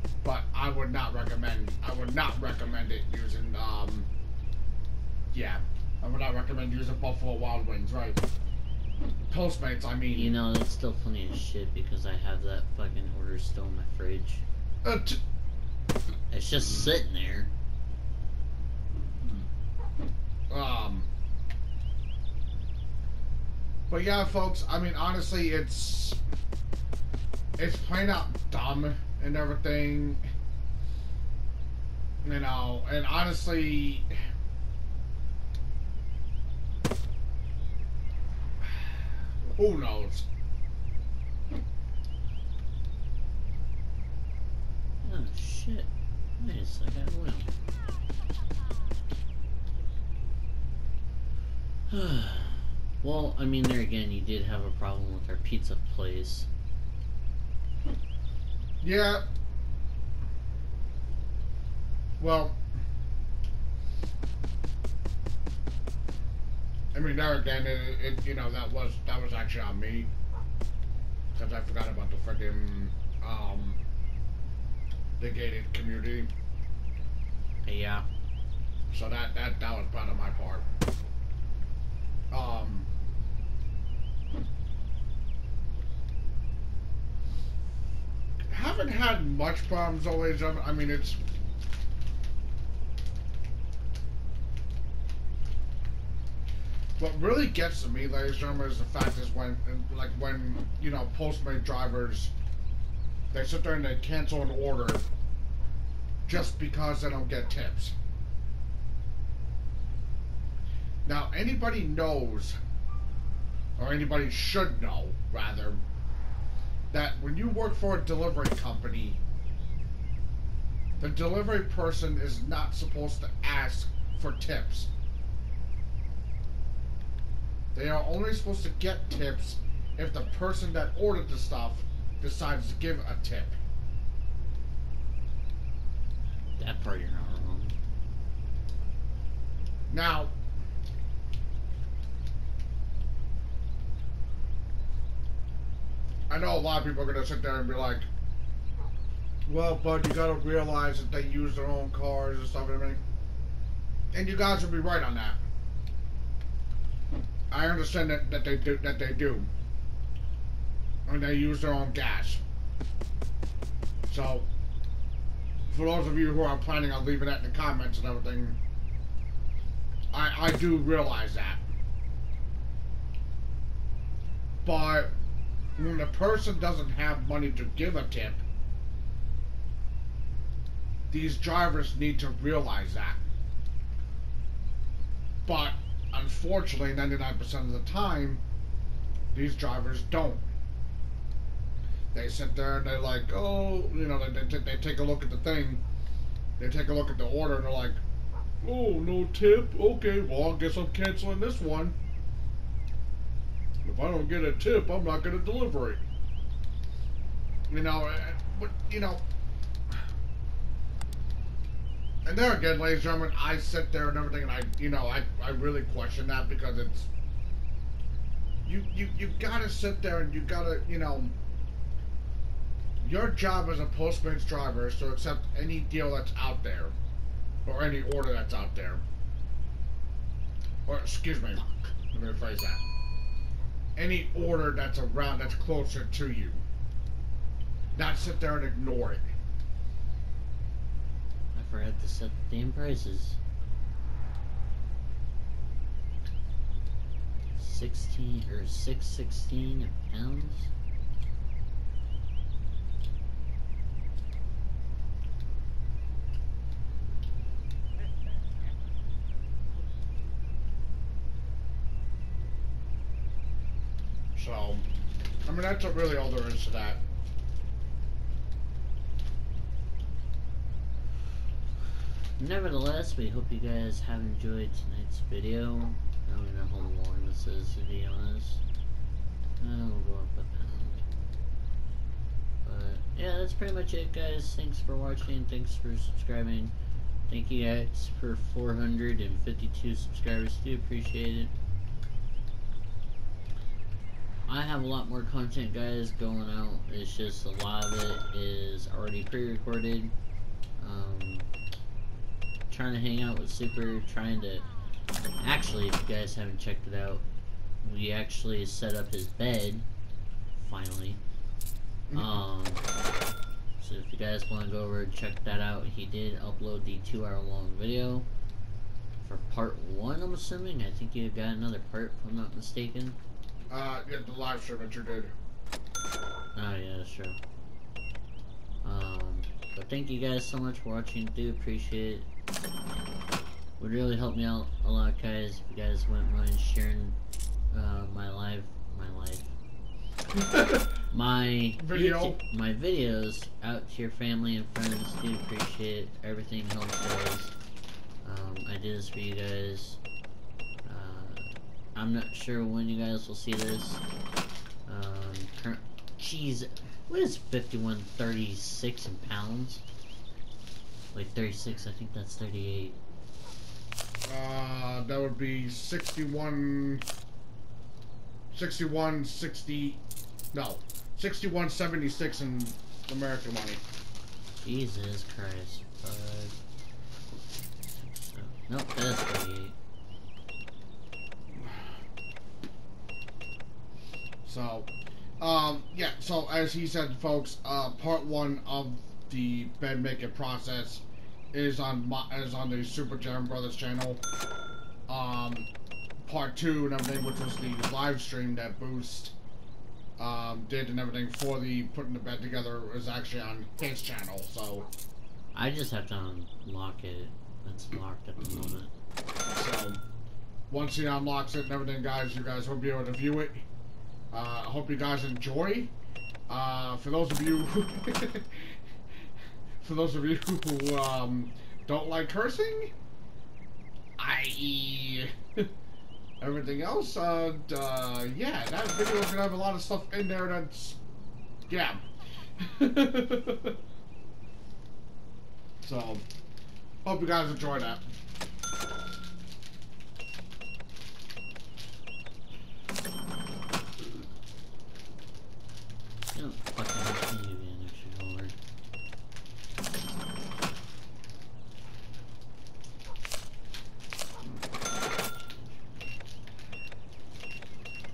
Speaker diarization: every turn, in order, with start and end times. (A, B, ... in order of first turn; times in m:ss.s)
0:00.2-0:04.1 A
0:05.3-0:08.2 A
0:09.3-0:10.4 A
0:10.1-0:14.4 B
0:14.8-0:15.2 A
0:16.3-0:17.5 B
0:20.5-0:21.1 A
0:23.9-0:26.2 A
0:27.6-0:30.2 A
0:32.2-0:34.1 A
0:39.4-0:40.2 A
0:45.0-0:47.5 B
0:51.9-0:56.5 B
0:58.8-0:59.2 A
1:02.2-1:02.6 A
1:06.9-1:10.1 A
1:11.3-1:13.8 A
1:15.2-1:16.3 A
1:17.6-1:18.0 B
1:18.9-1:20.6 A
1:22.3-1:22.9 A
1:28.5-1:31.2 A
1:37.0-1:42.3 A
1:43.3-1:45.0 A
1:46.2-1:47.9 A
1:51.0-1:52.6 A
1:53.8-1:55.8 A
1:56.9-1:59.2 A
2:01.0-2:04.9 A
2:07.7-2:13.6 A
2:16.6-2:17.7 B
2:19.9-2:20.3 A
2:26.3-2:28.1 A
2:29.5-2:33.0 A
2:34.1-2:35.4 A
2:37.5-2:39.5 A
2:41.0-2:42.4 A
2:44.1-2:44.5 A
2:45.7-2:48.6 A
2:50.1-2:51.6 A
2:54.6-2:55.1 A
2:55.8-2:58.4 A
3:01.1-3:03.2 A
3:05.4-3:08.4 A
3:09.3-3:10.5 A
3:12.1-3:15.8 A
3:16.6-3:18.0 A
3:18.6-3:21.9 A
3:23.8-3:26.0 A
3:27.7-3:29.2 A
3:32.2-3:37.1 A
3:38.6-3:41.3 A
3:43.0-3:46.9 A
3:47.6-3:49.0 A
3:50.8-3:52.8 A
3:51.5-3:51.9 B
3:54.0-3:56.6 A
3:57.9-3:59.2 A
4:01.5-4:03.4 B
4:07.6-4:10.7 B
4:24.3-4:24.8 A
4:25.4-4:27.0 A
4:32.4-4:38.6 B
4:39.6-4:41.0 B
4:42.6-4:46.7 B
4:47.3-4:51.5 B
4:54.5-5:00.1 B
5:00.8-5:01.5 B
5:02.7-5:04.6 B
5:05.4-5:07.2 B
5:07.8-5:09.8 B
5:10.5-5:11.2 B
5:12.1-5:12.4 A
5:12.1-5:12.8 B
5:13.8-5:18.3 B
5:19.2-5:23.2 B
5:23.7-5:25.3 A
5:26.5-5:27.4 B
5:28.8-5:32.3 B
5:33.8-5:37.2 B
5:37.7-5:39.5 B
5:40.4-5:40.9 A
5:41.1-5:47.5 B
5:41.8-5:42.4 A
5:48.2-5:50.0 B
5:50.8-5:54.0 B
5:54.8-5:59.8 B
6:01.1-6:03.0 B
6:04.2-6:07.0 A
6:08.5-6:10.0 A
6:10.5-6:13.8 A
6:14.6-6:16.5 B
6:18.0-6:19.8 B
6:24.4-6:34.2 A
6:35.1-6:35.7 A
6:36.2-6:39.3 A
6:40.2-6:44.9 A
6:45.5-6:48.9 B
6:49.5-6:50.0 A
6:50.7-6:53.6 A
6:54.3-6:55.9 A
6:56.5-6:58.7 A
6:59.8-7:02.9 A
7:04.2-7:05.7 A
7:06.4-7:11.0 A
7:11.7-7:12.0 A
7:12.6-7:13.7 A
7:15.8-7:16.2 A
7:17.0-7:18.0 A
7:26.3-7:28.5 B
7:34.4-7:35.8 B